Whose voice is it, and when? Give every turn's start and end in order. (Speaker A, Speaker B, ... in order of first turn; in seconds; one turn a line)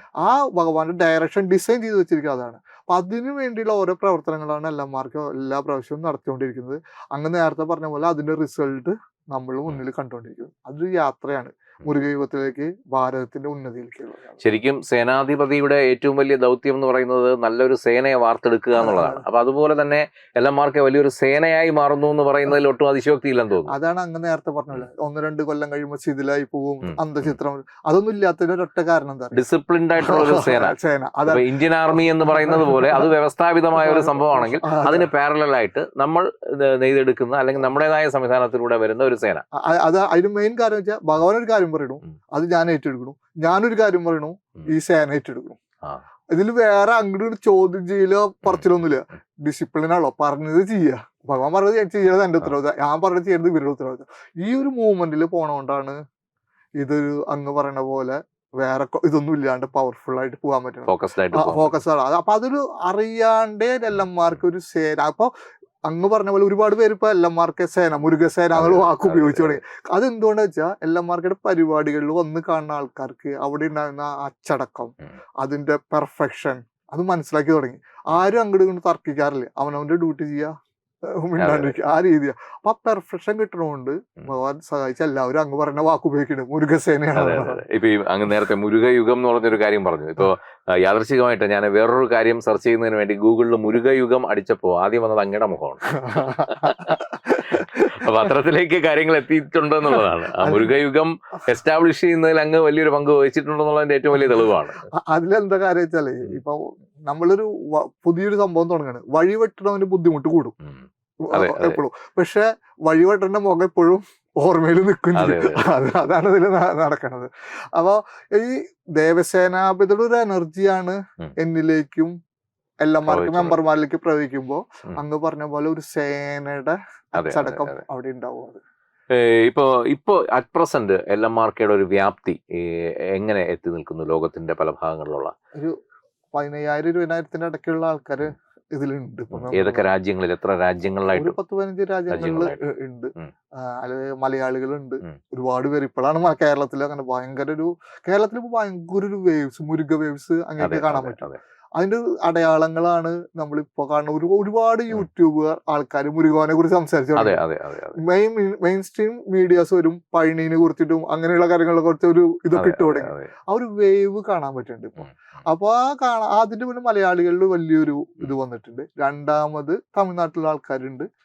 Speaker A: 0.2-14.4
Speaker B: 14.4-23.7
Speaker A: 18.7-19.2
Speaker A: 23.7-29.4
Speaker B: 26.8-27.4
Speaker B: 29.3-30.8
Speaker A: 30.0-33.1
Speaker B: 31.3-39.4
Speaker A: 33.8-35.1
Speaker A: 39.5-45.6
Speaker A: 46.3-56.0
Speaker A: 56.8-65.3
Speaker B: 60.9-61.8
Speaker A: 65.9-80.5
Speaker B: 68.5-69.6
Speaker A: 81.2-87.6
Speaker B: 81.4-81.8
Speaker B: 87.2-104.8
Speaker A: 96.0-98.3
Speaker A: 99.9-100.7
Speaker A: 104.2-110.5
Speaker A: 111.3-122.1
Speaker B: 111.3-111.8
Speaker B: 115.1-115.7
Speaker A: 122.8-128.6
Speaker B: 123.1-123.6
Speaker B: 127.2-127.8
Speaker B: 129.1-135.3
Speaker A: 136.3-139.8
Speaker B: 139.3-141.3
Speaker A: 141.1-151.2
Speaker B: 142.1-142.6
Speaker B: 150.6-151.4
Speaker A: 151.8-157.4
Speaker B: 157.2-158.0
Speaker A: 158.0-171.1
Speaker B: 162.6-163.3